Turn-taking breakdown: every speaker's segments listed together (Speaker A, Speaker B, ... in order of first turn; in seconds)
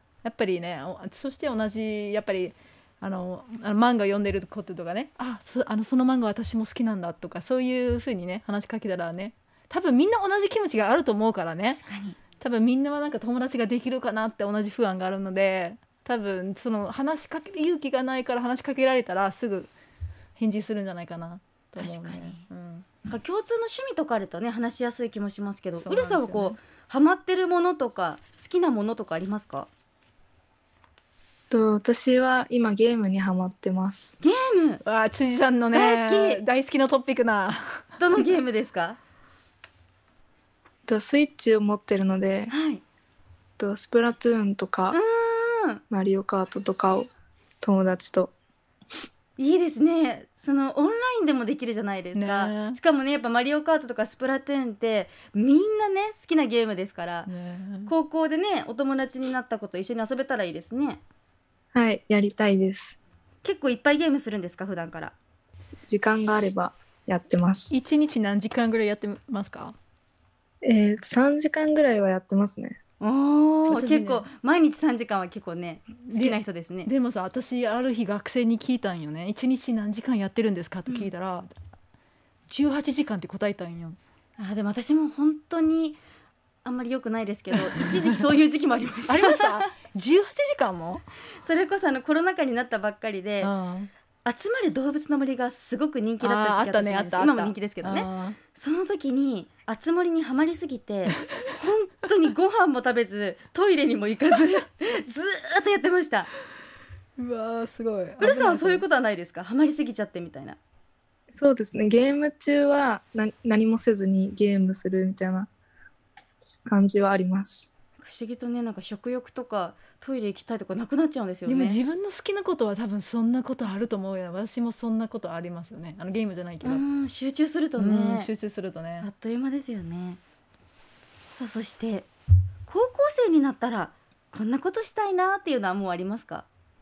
Speaker A: 0.2-19.7, 20.4-23.0, 25.8-26.6, 34.8-38.2, 52.1-52.8, 57.2-57.9, 67.7-69.8, 73.7-74.3, 76.0-81.5, 82.5-84.0, 87.5-88.3, 89.1-91.0, 93.4-93.9, 96.2-98.4, 101.2-101.5, 107.2-108.8, 121.5-126.8, 127.8-129.1
Speaker B: 11.7-12.2, 21.8-22.4, 23.0-29.7, 34.2-34.8, 35.7-36.4, 38.0-39.0, 42.5-42.8, 44.9-45.8, 49.4-57.3, 57.9-61.0, 63.4-65.1, 73.0-76.9, 80.9-81.1, 84.4-86.0, 86.6-89.7, 91.4-93.5, 94.2-106.3, 108.2-110.6, 118.0-121.8, 126.6-128.3, 129.0-130.2, 131.3-132.1, 132.7-136.4
Speaker C: 31.5-34.2, 40.9-42.5, 43.6-45.0, 45.9-47.1, 47.6-48.3, 61.7-63.0, 65.8-67.7, 70.6-72.8, 111.3-115.5, 116.7-117.7